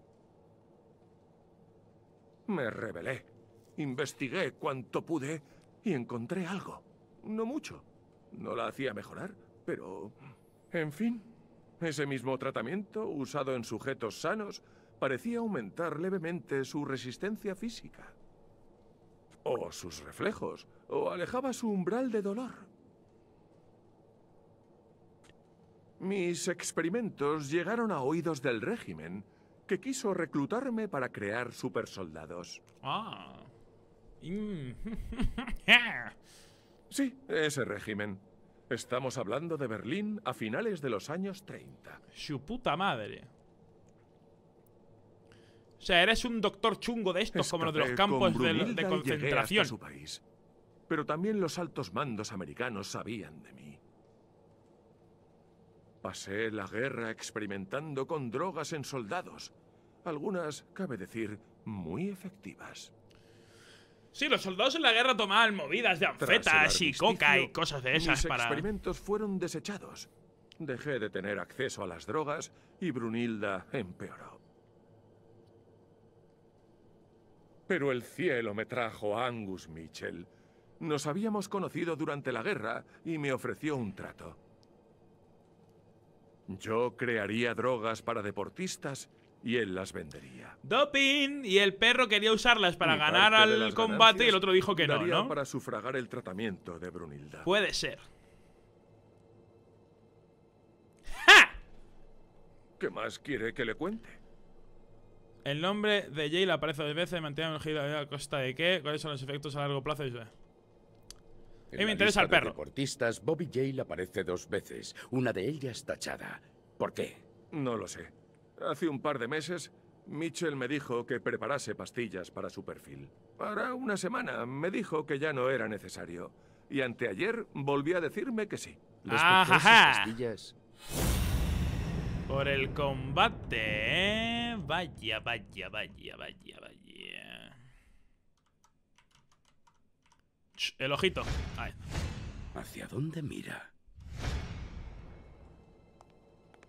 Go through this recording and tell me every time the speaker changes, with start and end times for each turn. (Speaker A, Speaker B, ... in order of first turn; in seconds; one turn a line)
Speaker A: 2.5-10.2
Speaker A: 10.7-11.3
Speaker A: 11.8-18.1
Speaker A: 19.4-22.7
Speaker A: 26.0-32.6
Speaker B: 32.8-33.5
Speaker B: 34.2-36.1
Speaker A: 36.9-42.0
Speaker B: 42.1-43.3
Speaker B: 45.8-49.7
Speaker A: 47.3-50.2
Speaker A: 50.9-53.8
Speaker A: 56.0-59.5
Speaker A: 60.0-62.9
Speaker B: 64.1-68.7
Speaker A: 66.2-74.4
Speaker A: 77.7-80.3
Speaker A: 80.8-84.4
Speaker A: 86.5-90.6
Speaker B: 90.7-95.3
Speaker A: 92.8-97.5
Speaker B: 97.5-98.0
Speaker B: 101.1-101.5
Speaker A: 102.8-104.2
Speaker B: 105.5-110.3
Speaker C: 111.7-117.2
Speaker B: 111.8-112.6
Speaker A: 117.5-128.8
Speaker C: 129.0-130.6
Speaker B: 129.1-130.1
Speaker B: 132.3-137.5
Speaker B: 140.6-141.8
Speaker C: 142.5-143.7